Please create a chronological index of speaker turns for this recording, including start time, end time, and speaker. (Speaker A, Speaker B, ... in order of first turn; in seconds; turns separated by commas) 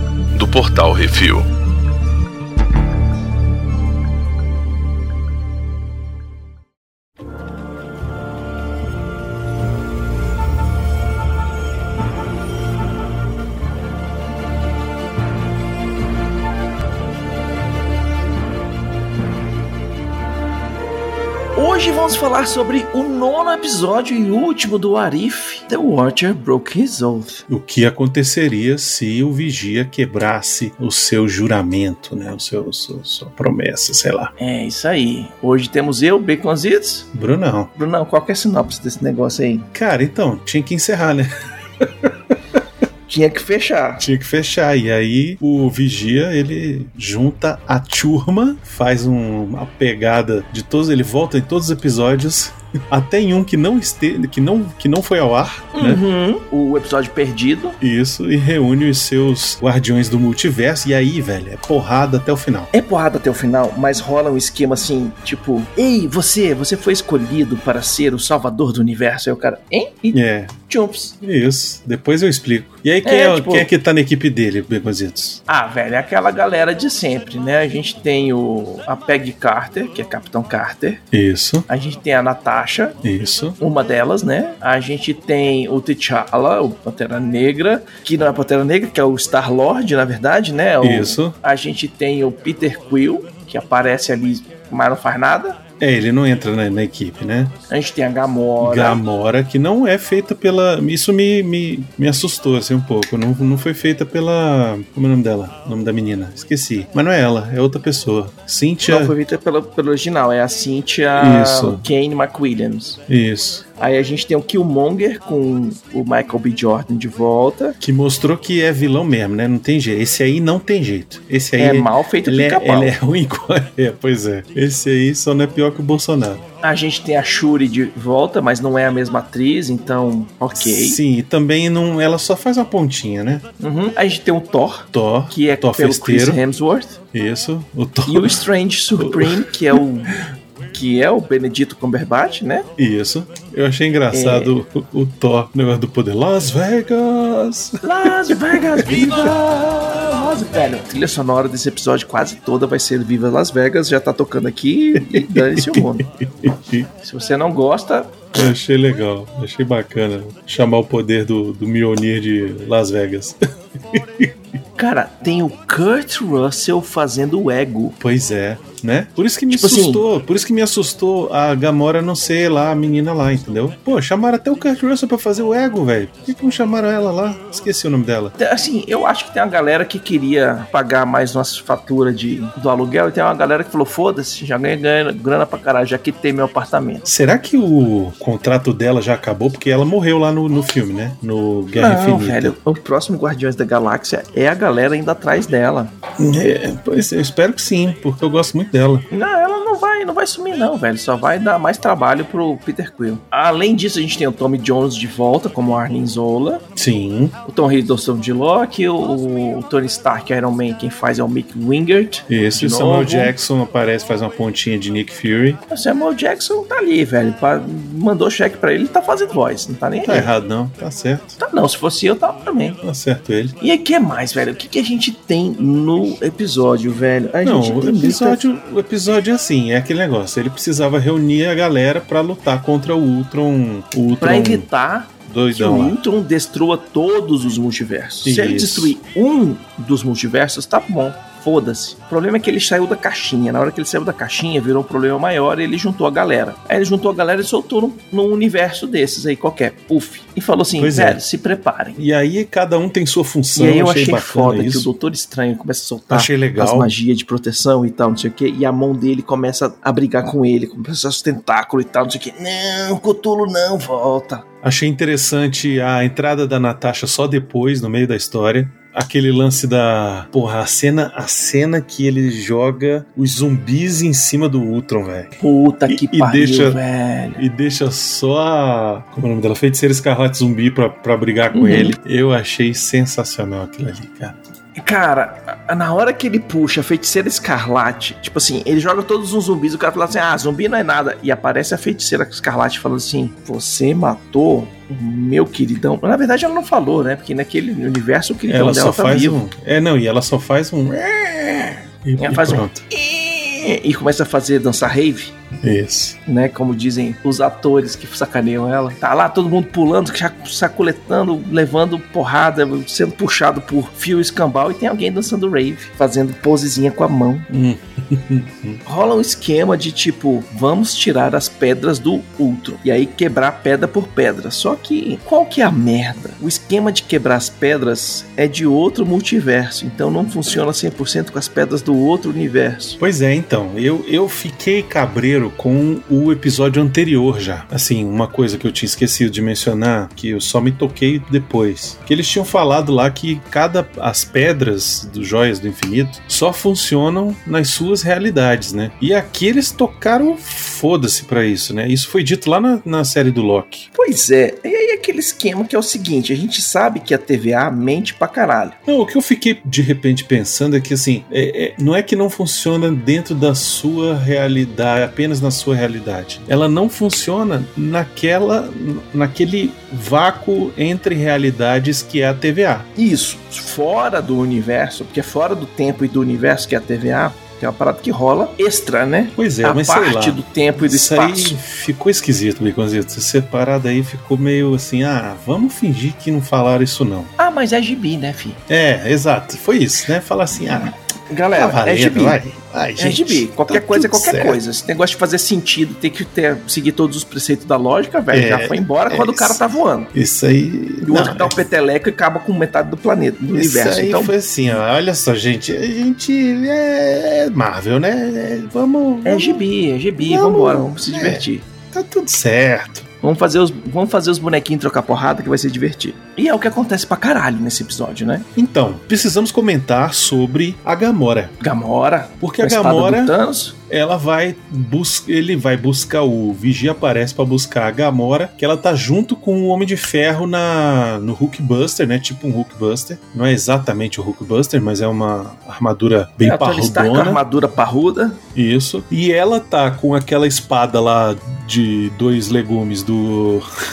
Speaker A: 0.3-1.4, Speaker B: 21.6-27.4, Speaker A: 27.5-34.3, Speaker B: 34.4-37.1, Speaker A: 37.1-37.7, Speaker B: 37.8-39.7, Speaker A: 39.7-42.6, Speaker B: 43.1-44.0, Speaker A: 44.0-56.0, Speaker B: 55.8-57.8, Speaker A: 57.8-62.7, Speaker B: 62.7-71.2, Speaker A: 70.1-70.5, Speaker A: 71.2-75.4, Speaker B: 73.0-73.7, Speaker B: 75.5-81.0, Speaker A: 81.1-81.7, Speaker B: 81.7-83.0, Speaker A: 83.0-83.6, Speaker B: 83.6-95.6, Speaker A: 90.8-91.3, Speaker A: 95.8-97.6, Speaker B: 97.7-99.0, Speaker A: 98.6-109.2, Speaker B: 108.8-113.0, Speaker A: 111.2-111.8, Speaker A: 113.1-113.6, Speaker B: 113.8-117.8, Speaker A: 117.8-126.4, Speaker B: 121.6-123.0, Speaker B: 126.6-131.0, Speaker A: 130.6-133.5, Speaker B: 133.6-137.0, Speaker A: 134.9-136.4, Speaker A: 137.1-138.4, Speaker B: 138.1-140.1, Speaker A: 139.0-139.8, Speaker B: 140.7-142.7, Speaker A: 142.8-149.3, Speaker B: 144.1-144.5, Speaker B: 147.8-156.1, Speaker A: 154.9-156.9, Speaker B: 157.0-158.2, Speaker A: 158.3-164.3, Speaker B: 164.8-168.0, Speaker A: 168.0-178.3, Speaker B: 169.5-170.0, Speaker B: 178.4-187.1, Speaker A: 187.1-192.6, Speaker B: 191.8-195.9, Speaker A: 196.2-199.1, Speaker B: 199.1-206.6, Speaker A: 206.8-207.4, Speaker B: 207.4-213.3, Speaker A: 212.3-215.6, Speaker B: 215.7-220.3, Speaker A: 220.1-221.4, Speaker B: 221.4-222.8, Speaker A: 222.8-223.6, Speaker B: 223.6-228.5, Speaker A: 227.4-234.7, Speaker B: 234.2-252.0, Speaker A: 235.3-236.0, Speaker A: 238.2-238.9, Speaker A: 250.8-251.2, Speaker A: 252.0-254.9, Speaker B: 253.6-264.5, Speaker A: 256.1-256.9, Speaker A: 264.6-276.8, Speaker B: 275.4-277.4, Speaker A: 277.4-284.4, Speaker B: 281.5-282.0, Speaker B: 284.8-299.4, Speaker A: 298.5-302.8, Speaker B: 302.2-305.3, Speaker A: 305.6-306.2, Speaker B: 306.3-317.5, Speaker A: 317.5-318.8, Speaker B: 318.9-333.0, Speaker A: 333.0-353.9, Speaker B: 353.9-358.8, Speaker A: 358.9-372.9, Speaker B: 373.0-381.6, Speaker A: 379.4-387.3, Speaker B: 387.4-388.6, Speaker A: 388.7-390.9, Speaker B: 391.3-392.4, Speaker A: 391.5-394.6, Speaker B: 393.0-400.1, Speaker A: 398.3-399.6, Speaker A: 400.1-401.6, Speaker B: 401.0-404.4, Speaker A: 403.5-409.6, Speaker B: 409.2-411.7, Speaker A: 410.2-413.1, Speaker B: 413.2-418.5, Speaker A: 418.6-421.6, Speaker B: 421.6-423.8, Speaker A: 422.4-423.4, Speaker A: 423.9-437.4, Speaker B: 436.4-438.4, Speaker A: 438.6-443.6